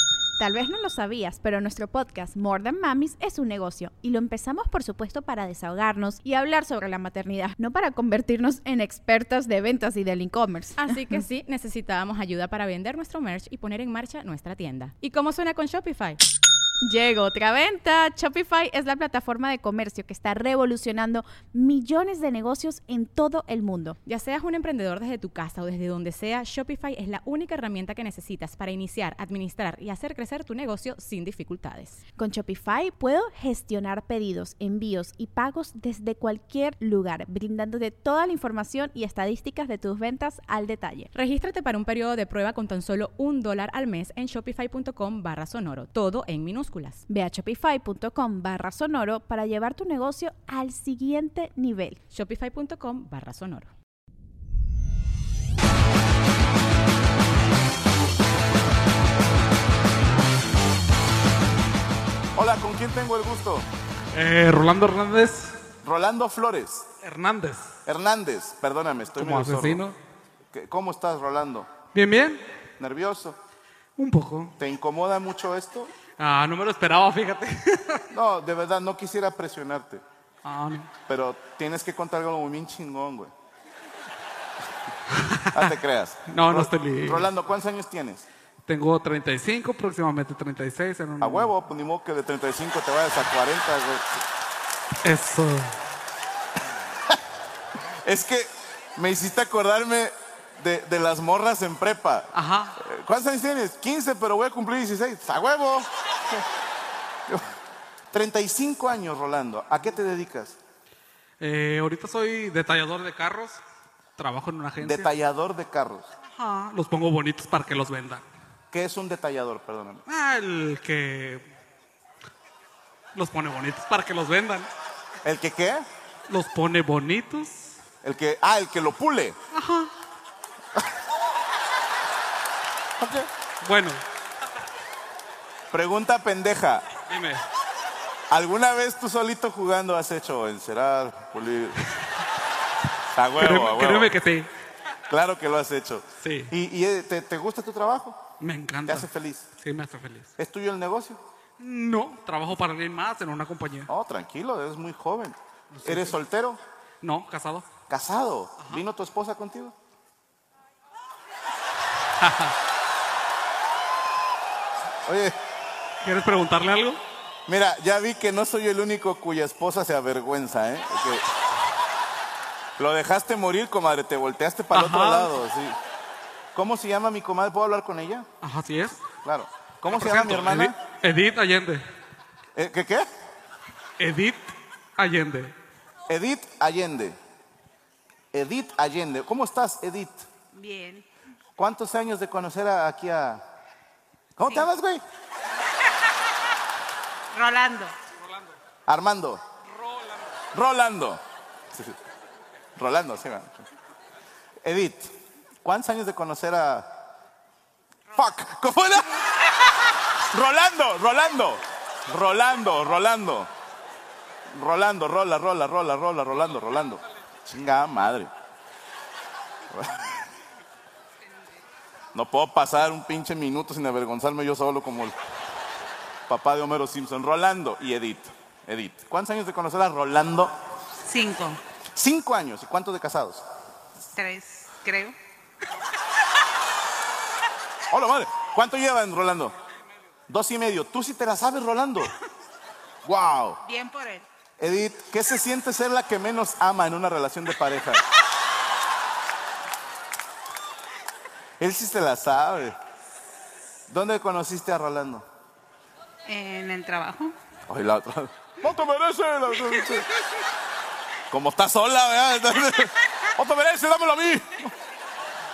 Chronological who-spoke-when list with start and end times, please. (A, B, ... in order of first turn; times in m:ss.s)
0:00.4-0:11.2 A
0:10.8-0:16.2 B
0:16.8-0:24.0 A
0:24.0-0:32.0 B
0:32.2-0:41.1 A
0:41.1-0:47.0 B
0:47.1-0:52.0 A
0:52.1-0:53.7 B
1:02.4-1:03.7 C
1:04.1-1:05.6 D
1:05.8-1:06.8 C
1:07.0-1:07.7 D
1:07.9-1:09.8 C
1:09.2-1:10.0 D
1:10.5-1:11.7 C
1:11.9-1:12.4 D
1:12.8-1:13.4 C
1:14.0-1:14.5 D
1:14.6-1:15.9 C
1:16.2-1:18.0 D
1:18.1-1:20.0 C
1:20.4-1:20.9 D
1:21.1-1:23.3 C
1:25.2-1:25.7 D
1:25.5-1:28.3 C
1:26.3-1:27.3 D
1:28.7-1:31.5 D
1:31.2-1:34.2 C
1:35.0-1:35.7 D
1:38.0-1:45.9 C
1:42.3-1:42.8 D
1:48.1-1:50.6 C
1:51.4-1:53.6 D
1:54.2-1:55.1 D
1:54.8-1:56.1 C
1:56.3-1:58.2 D
1:58.7-2:00.0 C
2:00.1-2:01.5 D
2:03.2-2:04.7 D
2:05.2-2:05.9 C
2:06.3-2:07.8 D
2:08.0-2:09.4 C
2:09.5-2:09.9 D
2:13.0-2:13.3 C
2:13.6-2:14.0 D
2:15.7-2:16.9 C
2:17.1-2:17.4 D
2:18.3-2:21.8 C
2:23.2-2:24.1 C
2:23.4-2:24.5 D
2:25.1-2:28.2 C
2:26.2-2:26.5 D
2:28.4-2:29.1 D
2:28.9-2:29.5 C
2:29.6-2:30.3 D
2:30.4-2:31.2 C
2:31.6-2:33.9 D
2:33.9-2:36.6 C
2:35.7-2:36.2 D
2:37.0-2:37.7 D
2:37.9-2:39.7 C
2:42.2-2:42.5 D
2:45.0-2:45.4 C
2:46.0-2:47.0 D
2:47.5-2:51.3 C
2:52.8-2:55.8 C
2:54.7-2:55.4 D
2:56.5-2:58.3 C
2:58.4-2:59.0 D
2:59.1-3:00.8 C
2:59.9-3:01.8 D
3:02.6-3:03.1 C
3:04.0-3:05.6 D
3:06.1-3:07.2 C
3:08.3-3:10.3 C
3:10.5-3:11.0 E
3:11.6-3:13.4 C
3:14.4-3:15.0 C
3:17.3-3:18.0 E
3:18.9-3:19.4 C
3:20.5-3:21.2 C
3:22.8-3:23.6 C
3:24.6-3:25.1 C
3:25.6-3:26.9 C
3:28.2-3:29.2 C
3:30.2-3:33.5 C
3:34.5-3:38.3 C
3:39.7-3:40.2 C
3:42.1-3:45.2 C
3:46.3-3:50.5 C
3:51.0-3:51.6 E
3:51.9-3:53.4 C
3:54.2-3:55.2 E
3:57.9-3:59.6 C
4:00.3-4:02.2 C
4:03.0-4:03.6 C
4:03.6-4:04.3 E
4:04.6-4:08.0 C
4:11.6-4:12.8 C
4:13.9-4:15.2 C
4:16.3-4:17.3 E
4:17.7-4:20.1 C
4:21.3-4:24.7 C